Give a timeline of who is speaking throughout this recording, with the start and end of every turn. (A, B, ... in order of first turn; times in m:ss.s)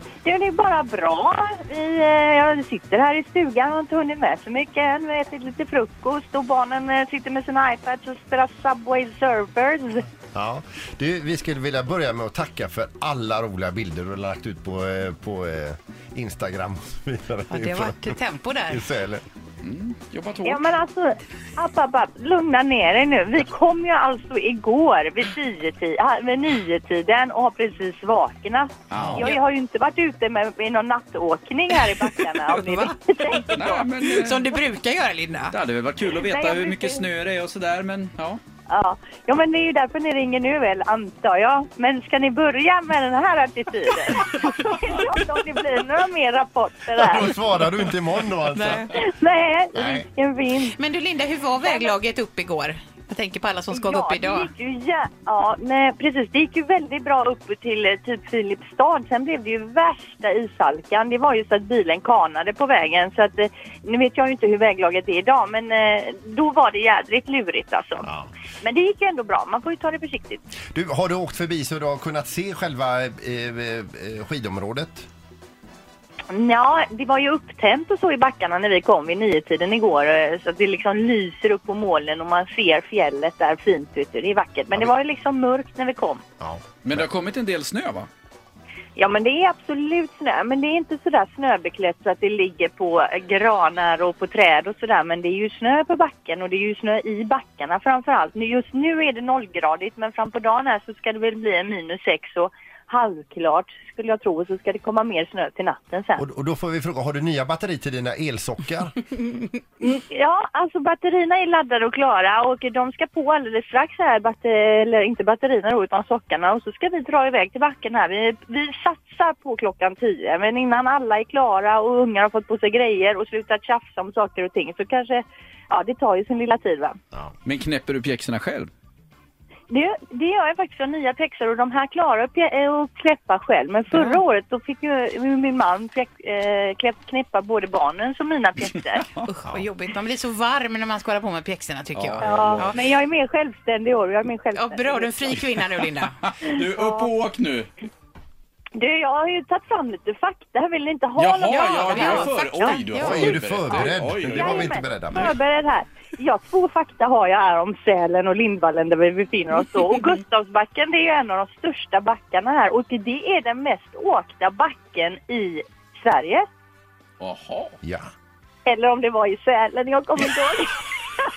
0:00.2-0:10.1 A
0:10.3-0:18.1 B
0:17.5-0:18.9 C
0:18.7-0:19.2 B
0:19.6-0:20.6 D
0:20.4-0:33.9 A
0:28.9-0:29.2 D
0:28.9-0:29.2 B
0:32.0-0:35.6 C
0:33.5-0:34.5 D
0:35.5-0:38.4 D
0:36.2-0:37.0 A
0:38.7-0:47.4 A
0:47.0-0:48.8 B
0:48.5-0:49.0 C
0:48.9-0:50.8 A
0:50.6-0:54.5 C
0:51.6-0:52.0 A
0:53.7-1:08.1 A
1:08.6-1:10.4 A
1:10.7-1:15.1 B
1:16.3-1:26.2 A
1:26.4-1:27.0 B
1:26.8-1:28.1 D
1:29.0-1:46.2 A
1:46.2-1:49.0 B
1:49.8-2:07.0 A
2:07.4-2:08.7 D
2:09.7-2:19.1 A
2:13.9-2:14.2 C
2:19.2-2:22.9 C
2:21.9-2:22.7 D
2:22.2-2:25.3 A
2:24.6-2:26.2 C
2:26.2-2:27.7 D
2:26.8-2:27.1 A
2:28.8-2:32.5 A
2:31.2-2:35.3 D
2:31.4-2:33.8 C
2:32.9-2:35.4 B
2:34.3-2:46.4 A
2:47.2-2:47.8 D
2:47.8-2:48.1 B
2:48.7-2:50.9 A